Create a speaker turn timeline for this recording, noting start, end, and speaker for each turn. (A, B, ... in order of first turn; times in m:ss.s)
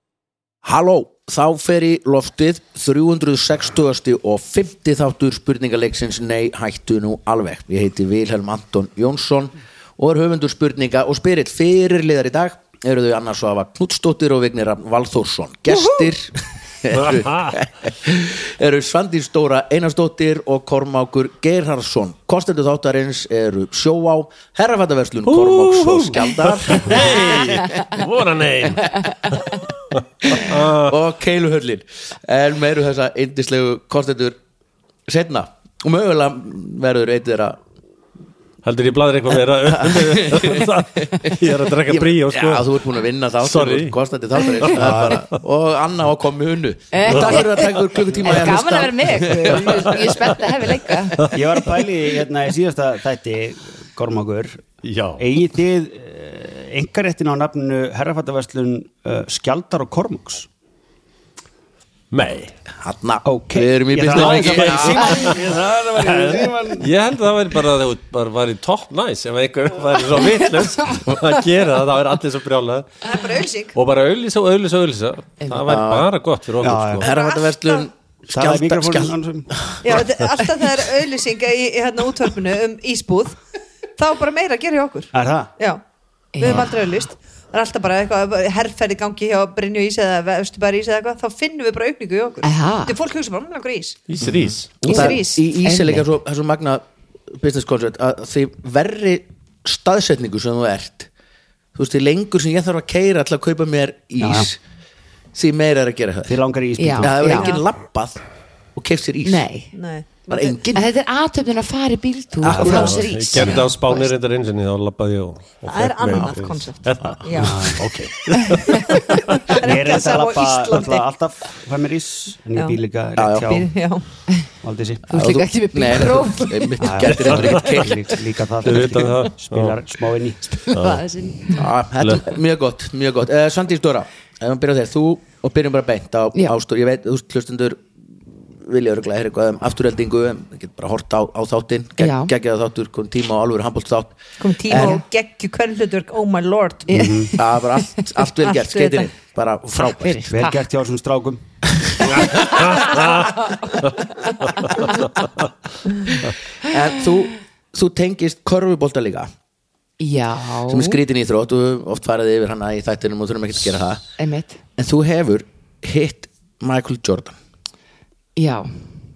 0:00.6-0:27.7 A
0:16.9-0:17.6 B
0:25.3-0:31.0 B
0:30.3-0:34.4 A
0:35.1-0:37.6 A
0:38.6-0:42.7 B
0:39.7-0:49.9 A
0:43.4-0:45.1 B
0:44.8-0:45.2 C
0:46.9-0:51.3 D
0:47.1-0:47.4 B
0:48.1-0:48.4 C
0:49.7-0:50.2 B
0:51.3-0:54.6 C
0:54.8-0:55.2 B
0:55.2-1:00.5 C
1:02.1-1:02.5 B
1:02.8-1:05.4 A
1:03.2-1:06.9 C
1:04.2-1:05.4 B
1:06.1-1:13.0 B
1:13.0-1:13.7 E
1:13.7-1:17.1 B
1:15.6-1:16.1 A
1:16.6-1:17.0 C
1:17.0-1:20.0 A
1:17.0-1:17.9 E
1:18.3-1:19.5 C
1:19.8-1:23.4 E
1:24.0-1:25.8 E
1:25.1-1:25.5 C
1:26.3-1:26.8 D
1:26.4-1:34.0 E
1:32.4-1:33.0 D
1:34.1-1:34.9 B
1:34.2-1:41.1 A
1:34.8-1:36.1 D
1:34.8-1:35.5 E
1:41.7-1:44.6 A
1:44.2-1:44.5 C
1:45.3-1:46.4 A
1:46.3-1:47.2 C
1:46.8-1:47.6 D
1:47.0-1:48.2 A
1:48.7-1:49.5 A
1:49.2-1:49.7 D
1:49.7-1:50.6 E
1:50.3-1:50.8 A
1:50.7-1:54.1 D
1:52.4-1:53.6 A
1:52.4-1:59.4 B
1:55.6-1:57.7 E
1:57.4-1:57.8 C
1:57.8-1:58.1 A
1:58.9-2:01.0 E
1:59.6-2:03.7 C
2:03.2-2:03.6 A
2:03.4-2:04.0 E
2:04.6-2:05.1 C
2:05.1-2:06.8 D
2:05.1-2:08.1 A
2:06.8-2:10.7 C
2:07.1-2:07.8 B
2:08.6-2:09.8 B
2:10.7-2:11.7 D
2:10.7-2:11.0 B
2:11.5-2:17.9 A
2:18.5-2:25.0 A
2:22.0-2:22.3 D
2:24.4-2:26.9 E
2:24.7-2:25.0 D
2:26.9-2:28.1 D
2:26.9-2:27.3 C
2:27.4-2:30.2 A
2:28.4-2:29.1 E
2:29.7-2:30.6 D
2:30.3-2:31.4 C
2:32.0-2:35.1 D
2:32.0-2:35.3 B
2:36.6-2:39.3 A
2:40.0-2:41.0 D
2:40.7-2:44.1 A
2:44.2-2:44.6 D
2:44.8-2:47.4 A
2:48.4-2:48.8 D